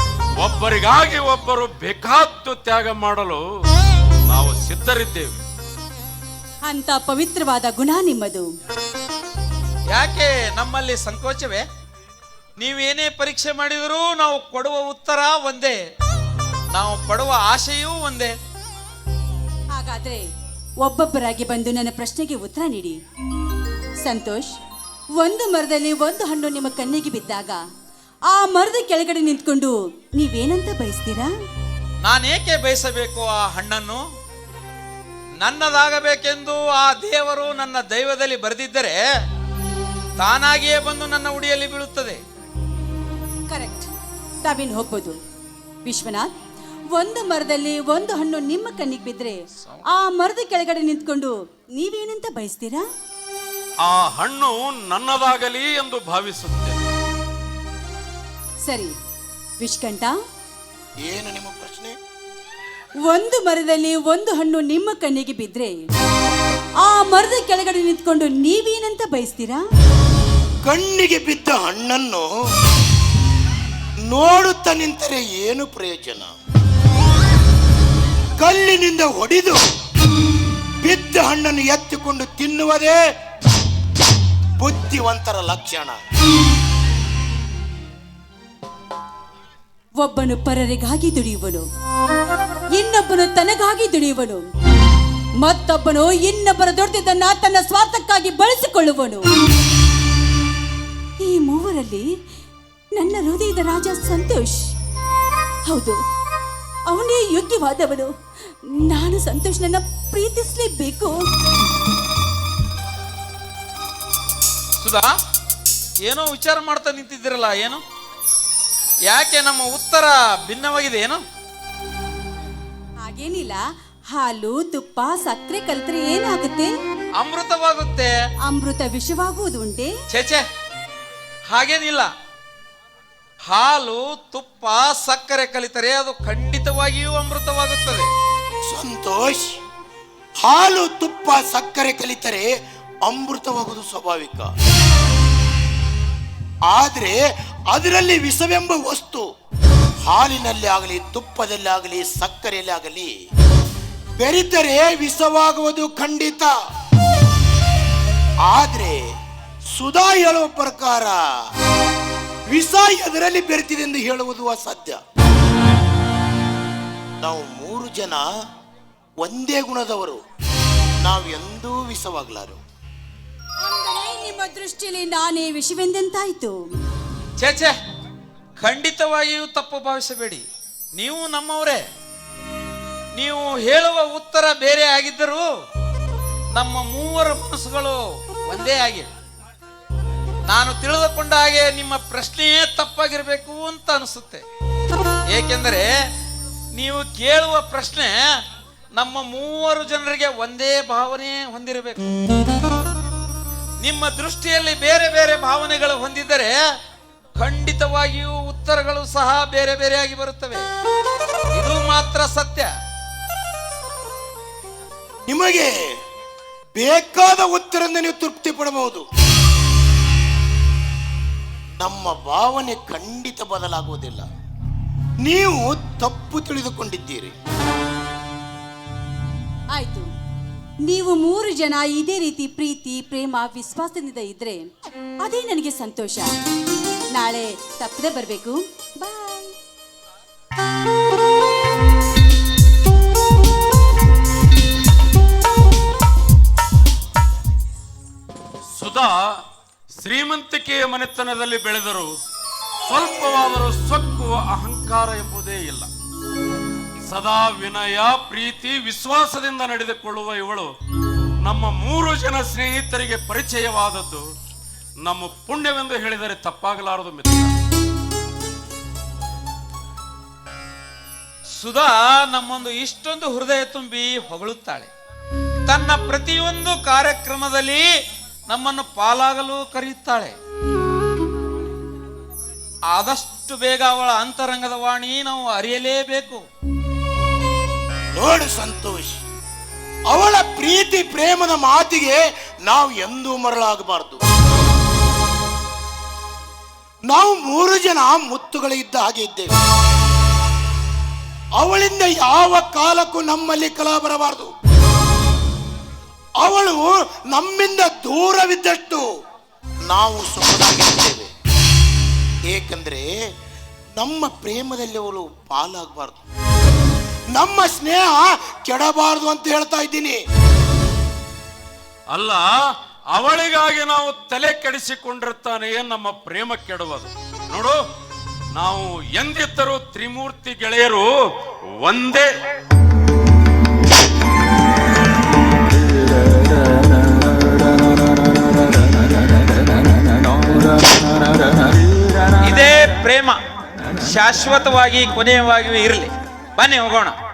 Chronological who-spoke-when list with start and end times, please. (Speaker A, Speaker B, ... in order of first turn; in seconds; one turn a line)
Speaker A: 0.4-3.4
Speaker A: 4.3-5.4
Speaker B: 6.7-8.5
Speaker C: 9.9-11.7
Speaker C: 12.6-15.8
Speaker C: 16.7-18.3
Speaker B: 19.8-20.2
Speaker B: 20.8-23.0
Speaker B: 24.0-24.5
Speaker B: 25.2-27.6
Speaker B: 28.3-31.3
Speaker C: 32.0-34.0
Speaker C: 35.4-39.0
Speaker C: 40.2-42.2
Speaker B: 43.5-43.9
Speaker B: 44.5-45.2
Speaker B: 45.9-46.3
Speaker B: 47.0-49.4
Speaker B: 49.9-52.9
Speaker A: 53.8-56.8
Speaker B: 58.7-58.9
Speaker B: 59.6-60.1
Speaker D: 61.0-62.0
Speaker B: 63.1-65.9
Speaker B: 66.8-69.6
Speaker D: 70.7-72.3
Speaker D: 74.1-76.4
Speaker D: 78.4-79.6
Speaker D: 80.8-83.0
Speaker D: 84.6-86.0
Speaker B: 90.0-91.7
Speaker B: 92.8-94.5
Speaker B: 95.4-99.2
Speaker B: 101.2-102.1
Speaker B: 103.0-104.7
Speaker B: 105.7-106.0
Speaker B: 106.9-108.1
Speaker B: 108.8-111.2
Speaker C: 114.8-115.1
Speaker C: 116.0-117.8
Speaker C: 119.1-121.2
Speaker B: 123.0-123.6
Speaker B: 124.1-126.7
Speaker C: 127.2-128.1
Speaker B: 128.5-129.9
Speaker C: 130.1-130.5
Speaker C: 131.5-132.1
Speaker C: 133.5-138.1
Speaker D: 138.6-139.6
Speaker D: 140.4-142.5
Speaker D: 143.1-144.5
Speaker D: 146.7-149.3
Speaker D: 150.1-153.1
Speaker D: 154.2-156.5
Speaker D: 158.4-159.1
Speaker D: 159.7-161.3
Speaker D: 162.5-165.0
Speaker D: 167.2-168.3
Speaker D: 169.2-170.2
Speaker D: 171.0-172.6
Speaker B: 173.6-176.7
Speaker C: 177.4-177.8
Speaker C: 178.6-180.4
Speaker C: 181.0-181.8
Speaker C: 183.2-185.5
Speaker C: 186.6-189.1
Speaker C: 190.5-194.4
Speaker C: 195.3-195.9
Speaker C: 196.7-198.2
Speaker C: 199.0-202.1
Speaker C: 203.8-206.6
Speaker C: 207.4-210.7
Speaker C: 211.5-212.7
Speaker D: 215.3-215.7
Speaker D: 216.8-219.1
Speaker D: 221.8-224.3
Speaker D: 225.2-227.3
Speaker B: 229.8-230.1
Speaker B: 230.9-234.7
Speaker B: 235.2-236.3
Speaker B: 237.2-239.5
Speaker A: 248.8-249.4
Speaker A: 249.9-252.2
Speaker A: 252.8-255.9
Speaker A: 257.0-260.7
Speaker A: 261.4-264.3
Speaker A: 265.0-267.6
Speaker C: 271.6-274.9
Speaker C: 275.7-277.9
Speaker C: 278.5-280.4
Speaker C: 282.9-286.4
Speaker D: 288.2-289.2
Speaker D: 290.1-294.3
Speaker D: 297.1-299.5
Speaker D: 301.6-304.6
Speaker D: 306.4-309.1
Speaker D: 309.9-311.3
Speaker D: 312.5-313.1
Speaker D: 314.0-316.2
Speaker D: 317.3-320.2
Speaker A: 322.1-327.8
Speaker A: 328.5-331.1
Speaker A: 331.7-332.3
Speaker C: 342.4-343.4
Speaker C: 344.0-347.2